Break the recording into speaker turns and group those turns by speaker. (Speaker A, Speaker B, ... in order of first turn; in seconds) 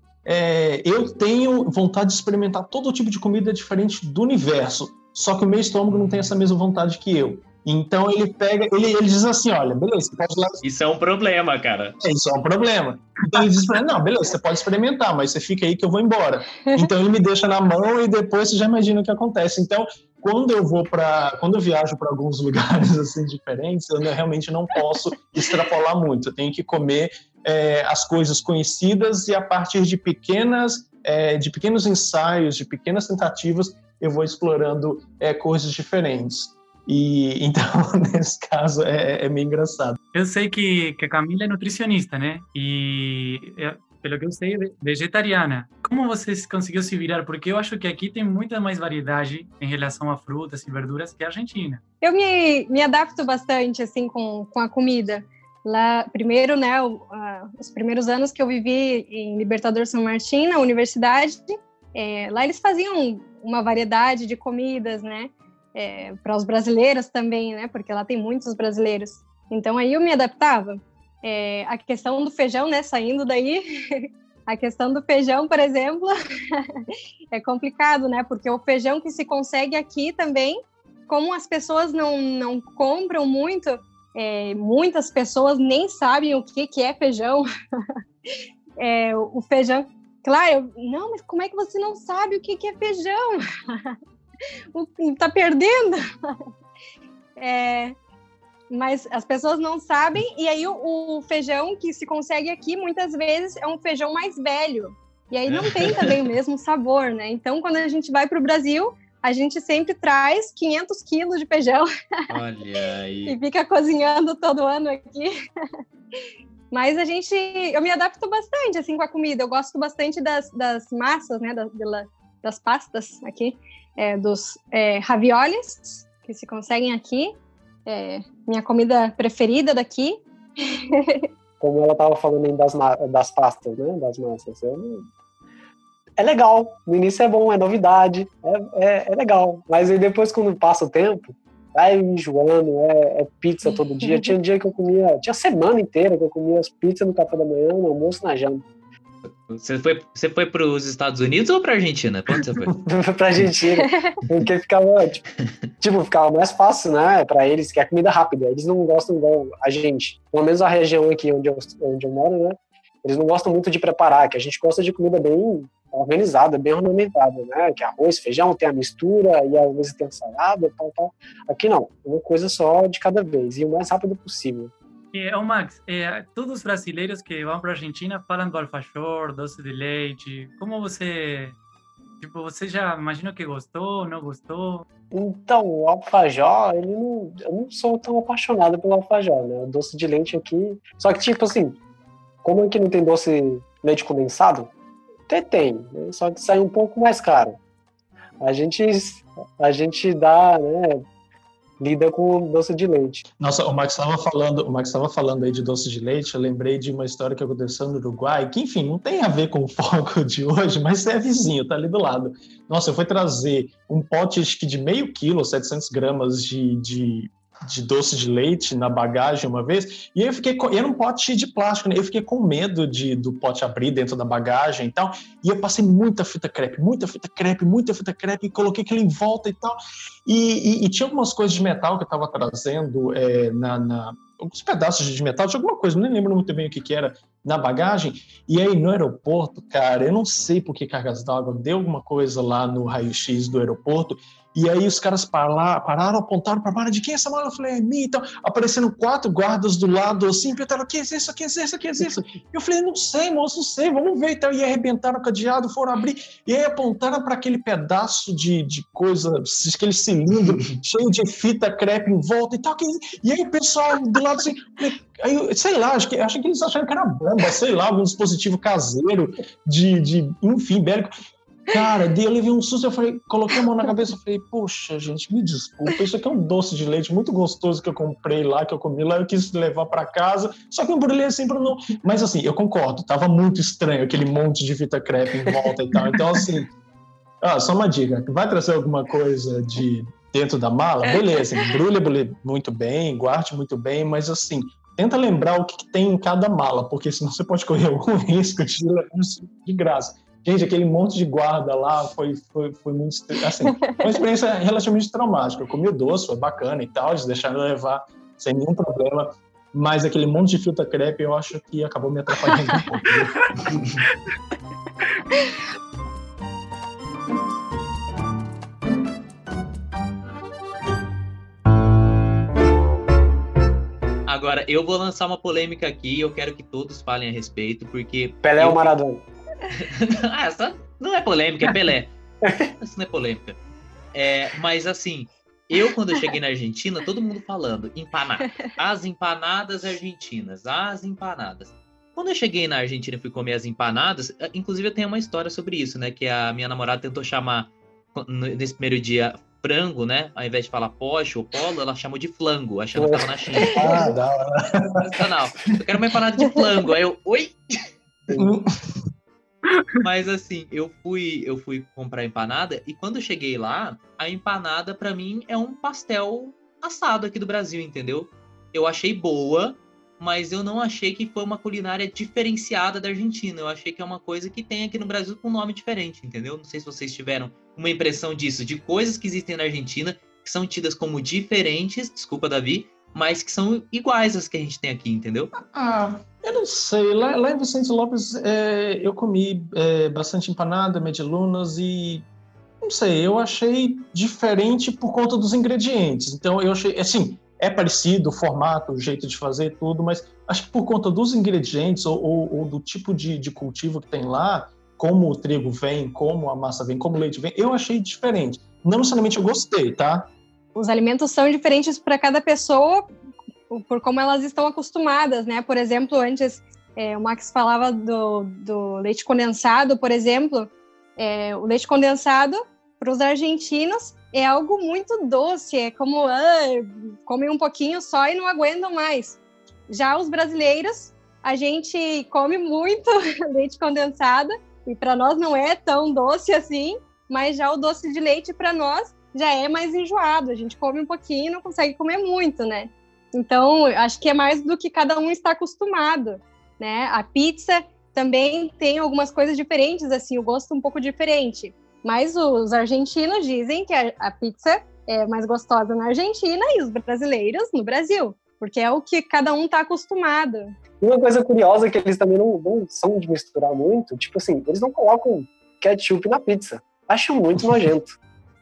Speaker A: 0.2-10.6, 12.0-40.0, 203.4-271.1, 271.7-286.7, 287.4-313.5, 353.8-355.1, 358.3-359.0, 385.6-392.2, 392.8-410.3
Speaker B: 5.9-6.3, 10.6-11.9, 105.5-106.1, 112.3-113.3, 149.2-152.8, 324.3-328.9, 329.7-332.1, 332.8-333.6, 334.1-353.8, 355.0-357.8, 360.0-385.5
Speaker C: 40.1-51.8, 175.1-181.6, 182.2-184.8
Speaker D: 52.0-76.1, 77.3-87.4, 88.8-93.9, 94.7-96.0, 97.4-97.9, 98.7-111.9, 113.3-115.3, 116.7-127.3, 127.8-130.2, 131.0-131.2, 153.8-154.2, 410.7-413.1, 413.7-429.4, 429.9-460.7
Speaker E: 131.6-135.1, 136.2-148.6, 152.8-155.2, 155.8-174.7, 185.1-191.8, 192.4-194.7, 195.3-197.6, 198.4-201.0, 201.8-203.2, 328.4-329.2, 352.9-354.1, 461.0-468.1